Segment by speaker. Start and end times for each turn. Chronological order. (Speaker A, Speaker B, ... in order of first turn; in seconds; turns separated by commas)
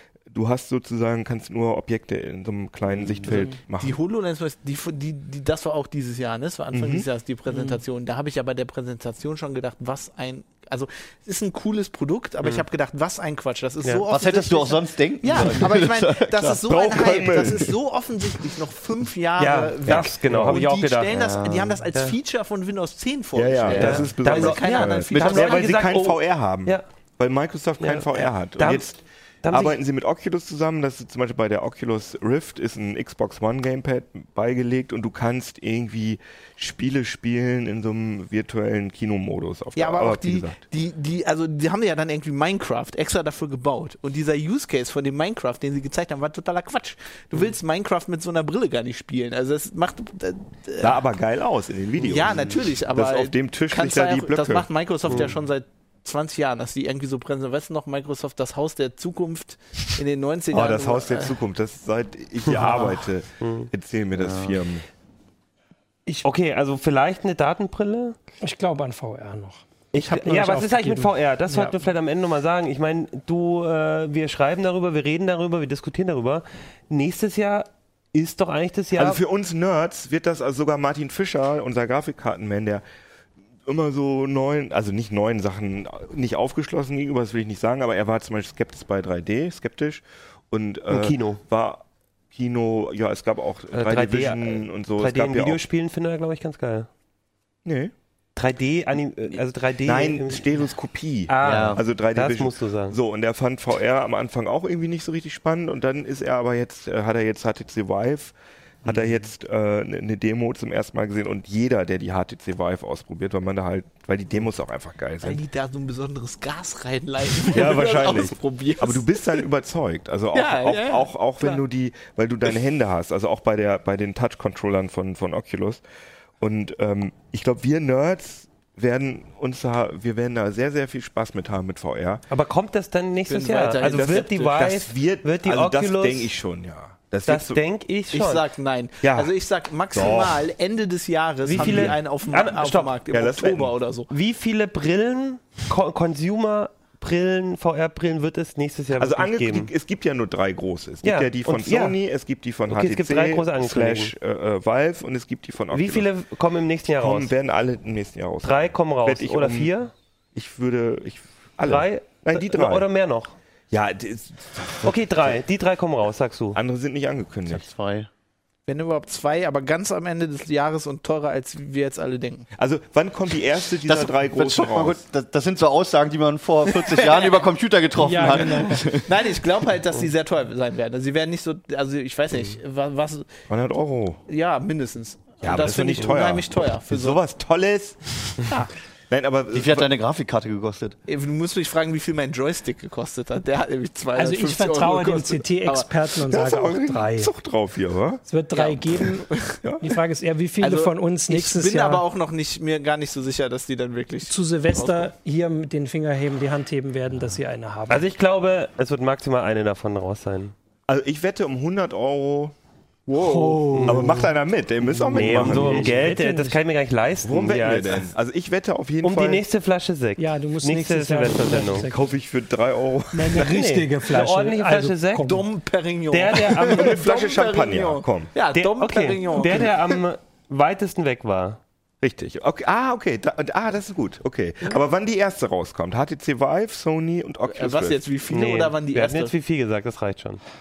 Speaker A: 0.3-4.0, Speaker B: 2.9-3.5, Speaker C: 3.3-3.6, Speaker D: 3.8-26.0, Speaker A: 6.7-7.1, Speaker C: 7.5-7.8, Speaker B: 14.1-16.6, Speaker A: 16.4-17.8, Speaker E: 19.4-21.1, Speaker A: 19.9-20.6, Speaker B: 21.1-21.8, Speaker A: 23.3-40.6, Speaker B: 23.7-24.0, Speaker E: 23.7-26.8, Speaker E: 27.8-28.9, Speaker E: 29.4-29.8, Speaker D: 39.8-51.0, Speaker A: 50.8-54.7, Speaker D: 52.0-61.4, Speaker A: 60.5-64.8, Speaker E: 62.4-63.7, Speaker B: 64.2-64.6, Speaker E: 66.2-68.2, Speaker C: 68.4-71.8, Speaker E: 69.9-79.2, Speaker A: 79.0-82.8, Speaker A: 83.7-95.6, Speaker E: 90.9-91.4, Speaker E: 93.7-96.9, Speaker A: 97.6-97.9, Speaker E: 98.3-100.7, Speaker A: 99.8-108.3, Speaker E: 101.3-103.0, Speaker B: 101.4-101.8, Speaker A: 108.8-115.4, Speaker D: 115.2-119.4, Speaker A: 117.4-125.8, Speaker D: 120.3-121.6, Speaker A: 126.4-132.2, Speaker E: 132.3-136.3, Speaker D: 133.3-134.5, Speaker A: 133.8-137.6, Speaker E: 137.3-138.4, Speaker D: 138.1-144.1, Speaker A: 139.0-139.3, Speaker A: 139.9-140.4, Speaker E: 141.4-143.0, Speaker A: 141.5-142.0, Speaker A: 143.1-143.7, Speaker E: 144.1-149.7, Speaker A: 148.9-156.1, Speaker E: 151.0-152.0, Speaker E: 152.7-154.1, Speaker E: 155.7-157.3, Speaker A: 156.9-159.7, Speaker E: 158.4-159.9, Speaker A: 160.3-162.8, Speaker E: 161.6-163.3, Speaker A: 163.7-165.3, Speaker E: 164.8-166.6, Speaker A: 166.5-167.7, Speaker B: 167.5-168.1, Speaker D: 168.7-172.5, Speaker A: 172.5-175.0, Speaker B: 173.8-179.1, Speaker D: 176.7-177.3, Speaker C: 178.0-178.8, Speaker D: 178.2-183.3, Speaker A: 183.5-184.2, Speaker D: 184.3-187.2, Speaker A: 185.4-188.3, Speaker D: 188.4-188.7, Speaker A: 189.1-189.9, Speaker B: 189.5-190.9, Speaker D: 191.1-195.9, Speaker C: 194.1-197.3, Speaker A: 196.3-198.2, Speaker C: 198.2-202.0, Speaker D: 198.5-199.6, Speaker A: 199.6-199.9, Speaker D: 200.6-205.1, Speaker C: 204.3-208.1, Speaker E: 207.9-210.5, Speaker A: 210.9-212.5, Speaker D: 213.1-213.8, Speaker C: 213.1-214.3, Speaker E: 213.7-214.1, Speaker A: 213.8-216.1, Speaker C: 214.8-216.6, Speaker E: 215.1-218.1, Speaker A: 217.2-219.4, Speaker E: 219.0-221.9, Speaker C: 220.2-222.1, Speaker A: 221.9-223.4, Speaker C: 223.1-225.4, Speaker E: 223.3-225.3, Speaker D: 225.2-230.0, Speaker E: 226.1-227.0, Speaker A: 226.6-228.3, Speaker E: 228.5-231.6, Speaker A: 232.0-238.0, Speaker D: 237.5-239.3, Speaker E: 238.3-240.4